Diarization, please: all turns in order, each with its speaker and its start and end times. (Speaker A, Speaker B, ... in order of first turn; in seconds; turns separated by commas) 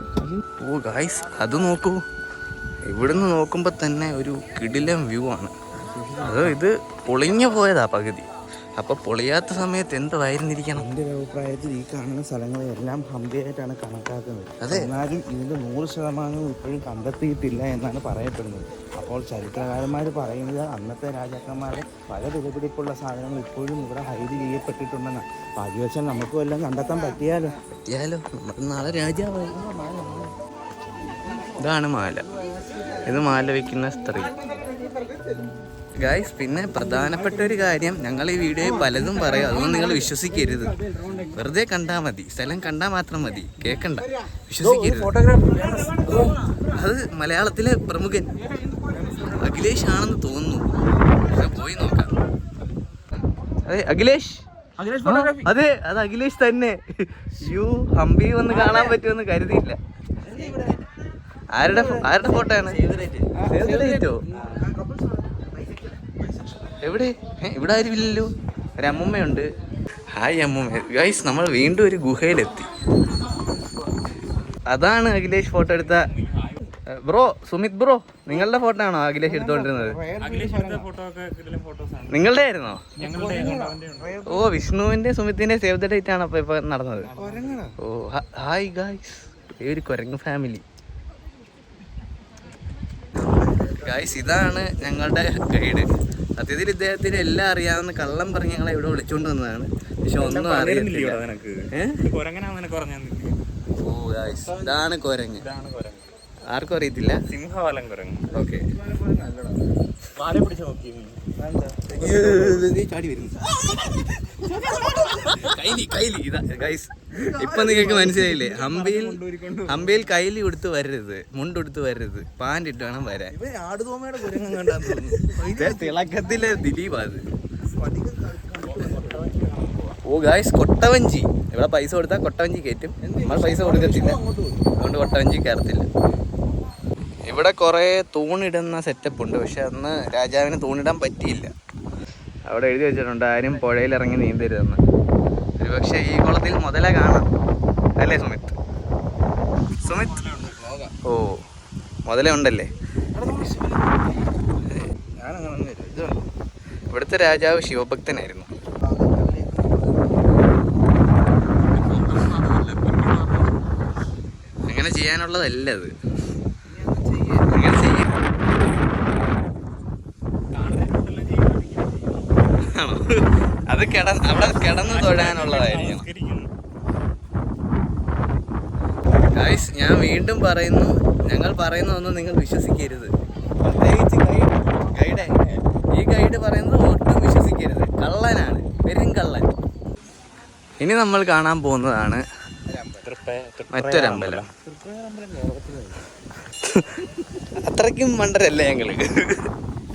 Speaker A: 0.6-2.0, Speaker A: 2.9-5.5, Speaker B: 5.8-6.6, Speaker A: 6.2-10.9, Speaker B: 10.8-27.6, Speaker A: 14.6-14.9, Speaker A: 27.8-29.6, Speaker B: 29.5-30.4, Speaker A: 31.6-32.3, Speaker B: 32.5-33.0, Speaker A: 33.0-34.4, Speaker B: 34.4-35.5, Speaker A: 36.0-45.2, Speaker B: 38.6-40.2, Speaker B: 44.6-46.4, Speaker A: 46.7-48.3, Speaker B: 48.8-49.4, Speaker A: 49.2-50.7, Speaker A: 51.2-52.1, Speaker A: 53.7-54.5, Speaker B: 54.8-55.5, Speaker A: 55.0-59.8, Speaker B: 58.5-59.0, Speaker B: 60.2-60.9, Speaker A: 61.5-62.8, Speaker B: 61.6-66.8, Speaker A: 63.4-64.2, Speaker A: 66.8-69.5, Speaker A: 70.1-72.7, Speaker A: 74.7-76.1, Speaker C: 75.8-76.7, Speaker A: 76.9-80.0, Speaker B: 79.2-80.9, Speaker C: 80.2-82.3, Speaker A: 82.1-82.9, Speaker C: 83.0-84.2, Speaker B: 83.0-84.5, Speaker A: 84.3-87.1, Speaker C: 87.0-87.6, Speaker B: 87.1-87.7, Speaker A: 87.8-90.6, Speaker B: 93.2-94.1, Speaker A: 93.7-102.0, Speaker C: 100.2-103.4, Speaker A: 103.8-105.5, Speaker B: 104.5-104.8, Speaker C: 105.4-106.1, Speaker A: 106.5-107.2, Speaker C: 107.3-108.3, Speaker A: 108.3-108.7, Speaker B: 108.4-109.8, Speaker C: 110.2-111.2, Speaker B: 111.4-112.7, Speaker A: 112.0-114.0, Speaker A: 114.6-123.3, Speaker B: 114.6-115.3, Speaker B: 117.1-118.2, Speaker C: 117.6-120.1, Speaker B: 123.3-126.2, Speaker A: 124.3-127.2, Speaker B: 127.6-129.3, Speaker C: 128.6-130.0, Speaker A: 130.1-134.2, Speaker B: 133.0-134.7, Speaker A: 134.8-135.9, Speaker A: 137.3-141.5, Speaker A: 142.5-144.8, Speaker A: 145.6-147.3, Speaker A: 148.0-148.6, Speaker A: 149.8-150.3, Speaker B: 150.2-150.9, Speaker A: 151.1-151.4, Speaker A: 152.1-152.7, Speaker B: 153.2-154.2, Speaker B: 154.8-156.2, Speaker A: 156.9-158.5, Speaker B: 158.8-160.6, Speaker A: 164.7-165.9, Speaker B: 166.7-167.6, Speaker A: 167.5-168.2, Speaker C: 170.5-172.4, Speaker A: 172.6-176.1, Speaker C: 174.3-176.5, Speaker A: 179.3-189.5, Speaker A: 190.8-192.2, Speaker B: 192.7-193.1, Speaker C: 193.1-194.5, Speaker A: 193.7-194.4, Speaker B: 194.6-196.1, Speaker A: 196.6-199.5